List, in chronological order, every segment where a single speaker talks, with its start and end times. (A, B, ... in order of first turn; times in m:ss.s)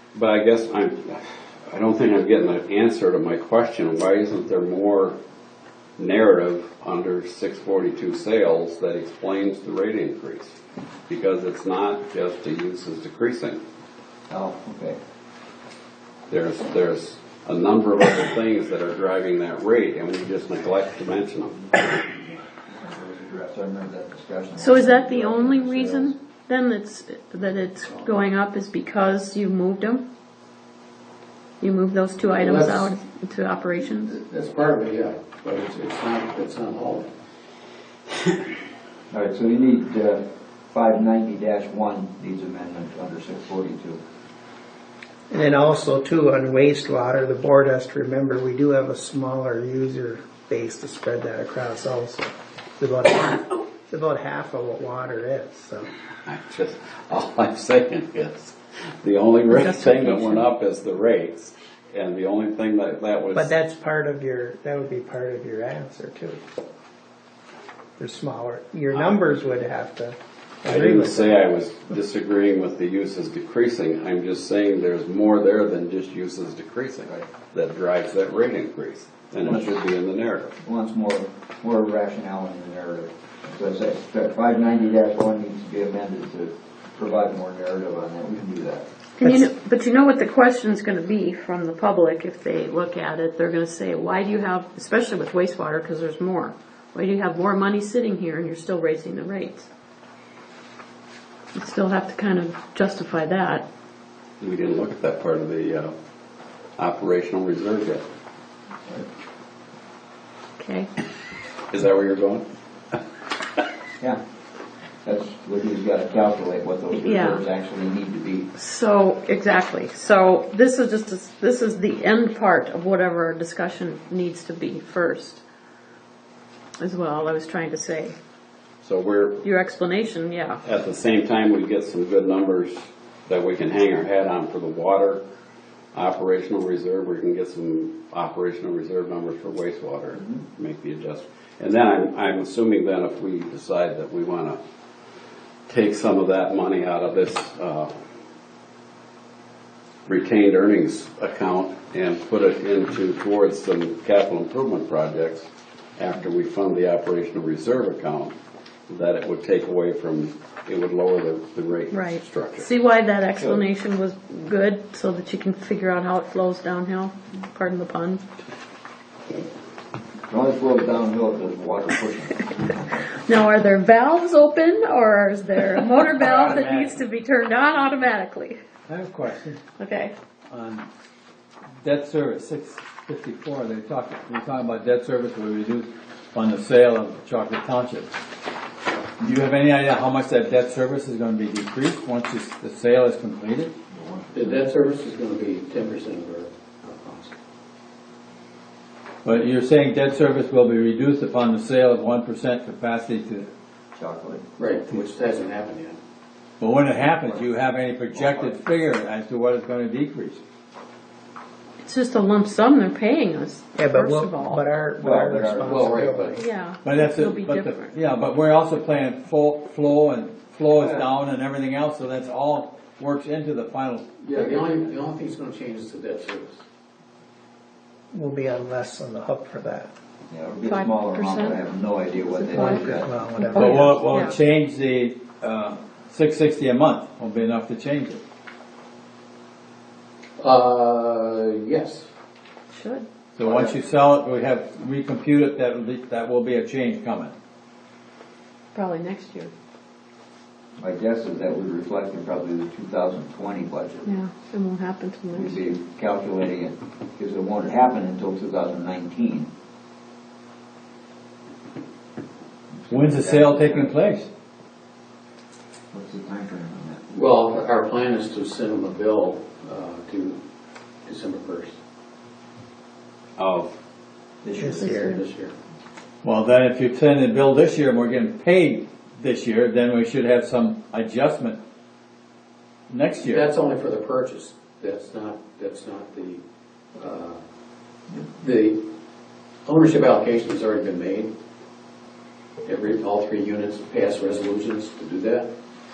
0:00.1-0:05.2 A
0:06.0-0:10.6 A
0:11.1-0:13.6 A
0:14.3-0:15.0 B
0:16.3-0:22.0 A
0:22.7-0:26.1 B
0:24.6-0:30.0 C
0:31.6-0:34.2 C
0:32.4-0:32.9 D
0:34.0-0:37.1 D
0:39.1-0:44.0 B
0:45.3-0:55.9 E
0:56.3-1:03.5 A
1:03.4-1:06.4 E
1:08.0-1:11.4 E
1:10.6-1:20.6 A
1:19.4-1:19.7 B
1:20.6-1:28.8 B
1:29.2-1:39.7 C
1:41.5-1:43.6 C
1:44.4-1:45.9 A
1:46.8-1:48.0 A
1:50.6-1:50.9 C
1:51.7-1:53.0 A
1:55.0-1:58.5 B
1:57.0-1:57.4 C
1:58.6-2:05.4 C
2:06.8-2:08.2 C
2:08.8-2:09.4 A
2:09.4-2:10.6 C
2:10.6-2:15.2 A
2:15.9-2:24.6 A
2:25.7-2:27.9 A
2:30.1-2:35.5 A
2:36.0-2:38.3 A
2:38.9-2:42.7 A
2:41.9-2:48.2 C
2:50.3-2:52.8 B
2:53.1-2:58.6 C
2:56.2-2:57.0 F
2:58.9-2:59.6 F
2:59.8-3:00.1 C
3:00.5-3:00.9 F
3:01.8-3:08.1 F
3:09.2-3:13.7 F
3:13.9-3:14.5 B
3:14.3-3:17.4 D
3:19.2-3:23.5 F
3:24.0-3:24.5 B
3:24.6-3:26.0 D
3:26.6-3:30.4 F
3:28.2-3:28.5 B
3:31.8-3:34.6 C
3:33.8-3:36.4 E
3:35.0-3:36.0 B
3:35.7-3:36.4 D
3:36.3-3:38.0 C
3:36.8-3:44.4 F
3:40.8-3:41.1 B
3:44.2-3:46.6 D
3:48.1-3:49.9 E
3:50.3-3:53.1 B
3:50.6-3:51.6 C
3:52.3-3:54.4 C
3:52.5-3:54.0 E
3:53.5-3:58.2 F
4:00.4-4:02.1 D
4:02.7-4:03.1 C
4:03.4-4:07.3 F
4:03.4-4:03.7 D
4:08.7-4:09.5 C
4:10.8-4:14.1 B
4:14.0-4:15.6 C
4:15.3-4:19.5 B
4:22.8-4:23.9 B
4:22.9-4:24.3 F
4:25.9-4:27.0 B
4:27.1-4:30.4 D
4:31.1-4:31.8 D
4:33.4-4:33.7 A
4:34.4-4:34.9 B
4:34.6-4:35.2 E
4:34.7-4:35.2 C
4:35.0-4:35.5 D
4:36.2-4:41.6 F
4:42.9-4:43.4 F
4:43.2-4:46.4 D
4:47.0-4:47.4 D
4:48.2-4:48.8 D
4:49.6-4:51.3 D
4:52.6-4:55.5 D